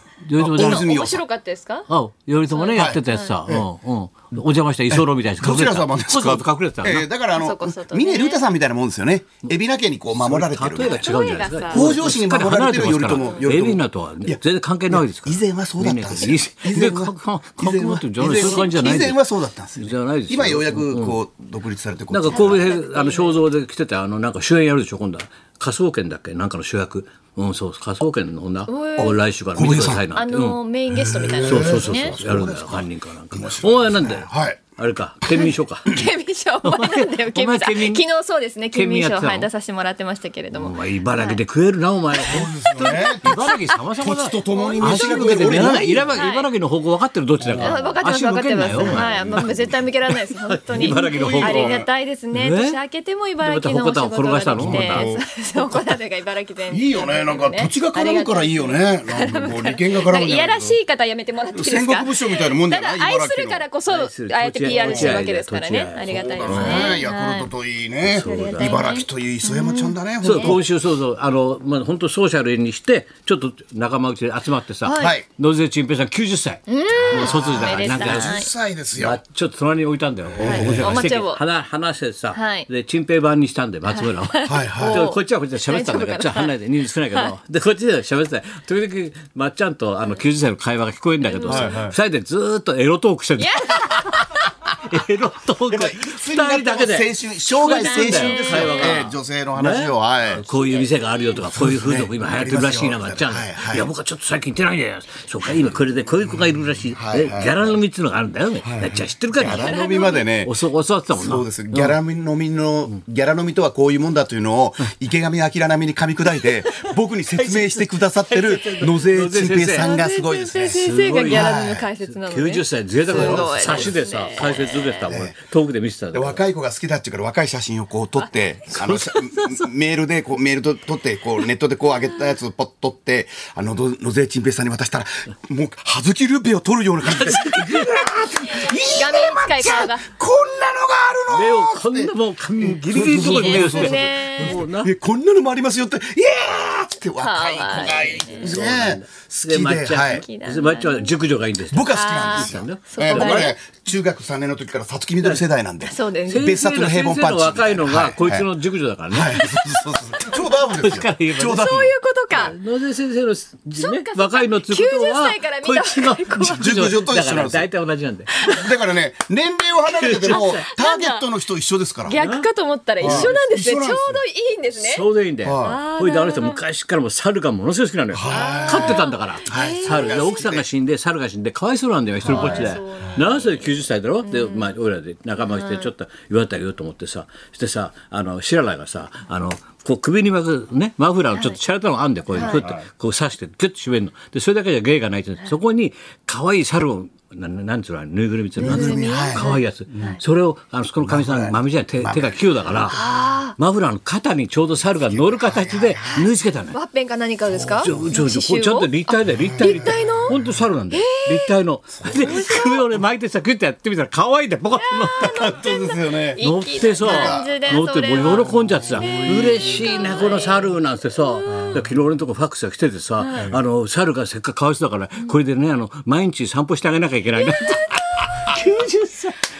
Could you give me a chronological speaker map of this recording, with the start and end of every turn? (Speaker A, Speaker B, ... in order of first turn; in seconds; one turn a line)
Speaker A: 0.2-0.9
Speaker B: 0.4-1.2
Speaker C: 0.5-1.9
Speaker A: 1.9-7.1
Speaker C: 2.5-3.4
Speaker B: 2.7-3.7
Speaker B: 4.9-22.6
Speaker C: 7.3-8.4
Speaker A: 10.1-19.2
Speaker C: 10.8-12.0
Speaker C: 13.2-13.4
Speaker A: 19.8-21.1
Speaker A: 22.1-30.6
Speaker C: 22.3-23.4
Speaker C: 28.7-29.2
Speaker B: 29.0-30.1
Speaker C: 30.1-32.2
Speaker B: 30.9-34.6
Speaker A: 31.4-36.0
Speaker C: 35.3-41.4
Speaker A: 36.6-38.0
Speaker A: 38.7-39.5
Speaker A: 40.5-49.7
Speaker C: 42.1-43.8
Speaker B: 42.3-46.2
Speaker C: 44.5-46.5
Speaker B: 47.4-47.8
Speaker C: 47.6-67.5
Speaker B: 48.6-49.9
Speaker A: 50.5-52.8
Speaker B: 50.8-51.8
Speaker A: 53.4-55.1
Speaker B: 54.5-55.2
Speaker B: 56.7-60.8
Speaker B: 61.5-63.7
Speaker A: 63.9-66.9
Speaker B: 64.7-65.2
Speaker B: 66.1-70.6
Speaker A: 68.0-68.8
Speaker C: 68.2-70.6
Speaker A: 70.2-78.4
Speaker C: 74.8-75.2
Speaker B: 75.0-75.2
Speaker C: 76.7-78.5
Speaker B: 76.9-79.2
Speaker A: 78.9-109.8
Speaker B: 80.4-81.1
Speaker C: 80.4-81.4
Speaker C: 82.3-82.7
Speaker C: 83.9-86.5
Speaker B: 84.5-85.0
Speaker C: 91.2-91.8
Speaker B: 91.5-92.0
Speaker C: 93.4-94.5
Speaker B: 95.7-100.4
Speaker C: 97.6-99.1
Speaker C: 100.5-101.4
Speaker B: 101.4-103.9
Speaker B: 106.9-107.8
Speaker B: 108.6-110.5
Speaker C: 109.5-110.2
Speaker A: 110.4-112.0
Speaker B: 111.2-121.9
Speaker A: 117.3-119.9
Speaker C: 119.8-125.1
Speaker A: 120.7-126.4
Speaker B: 123.0-124.5
Speaker B: 125.1-125.3
Speaker B: 126.1-150.2
Speaker A: 128.7-129.6
Speaker A: 137.1-138.1
Speaker C: 138.7-140.1
Speaker A: 141.3-144.9
Speaker C: 143.1-144.6
Speaker C: 147.2-148.6
Speaker A: 148.2-153.5
Speaker C: 150.2-151.2
Speaker B: 151.7-158.5
Speaker C: 151.9-153.6
Speaker C: 155.8-156.4
Speaker A: 156.2-159.8
Speaker B: 159.1-161.9
Speaker C: 160.2-160.4
Speaker A: 160.8-161.8
Speaker C: 161.4-162.6
Speaker A: 162.3-168.4
Speaker C: 163.7-166.8
Speaker B: 166.6-167.7
Speaker B: 168.4-172.2
Speaker A: 170.0-170.6
Speaker C: 170.3-171.2
Speaker C: 172.1-176.6
Speaker A: 172.2-172.4
Speaker A: 173.0-173.4
Speaker B: 173.0-174.2
Speaker A: 174.8-203.0
Speaker B: 175.4-175.8
Speaker B: 178.1-180.7
Speaker C: 178.3-180.4
Speaker C: 182.2-183.7
Speaker B: 182.2-182.7
Speaker C: 184.2-184.7
Speaker C: 185.5-185.9
Speaker C: 191.3-191.6
Speaker C: 192.3-192.7
Speaker B: 192.3-192.8
Speaker B: 198.6-199.5
Speaker C: 198.6-200.2
Speaker B: 201.0-203.3
Speaker C: 202.9-203.6
Speaker A: 203.6-206.8
Speaker B: 204.9-206.3
Speaker C: 206.7-211.6
Speaker B: 207.4-208.1
Speaker A: 207.7-215.6
Speaker B: 209.3-210.6
Speaker B: 212.0-212.6
Speaker C: 212.1-212.9
Speaker C: 214.8-221.9
Speaker B: 215.2-216.4
Speaker A: 216.4-229.3
Speaker B: 217.0-220.0
Speaker B: 221.5-221.9
Speaker C: 223.2-223.6
Speaker C: 227.3-228.6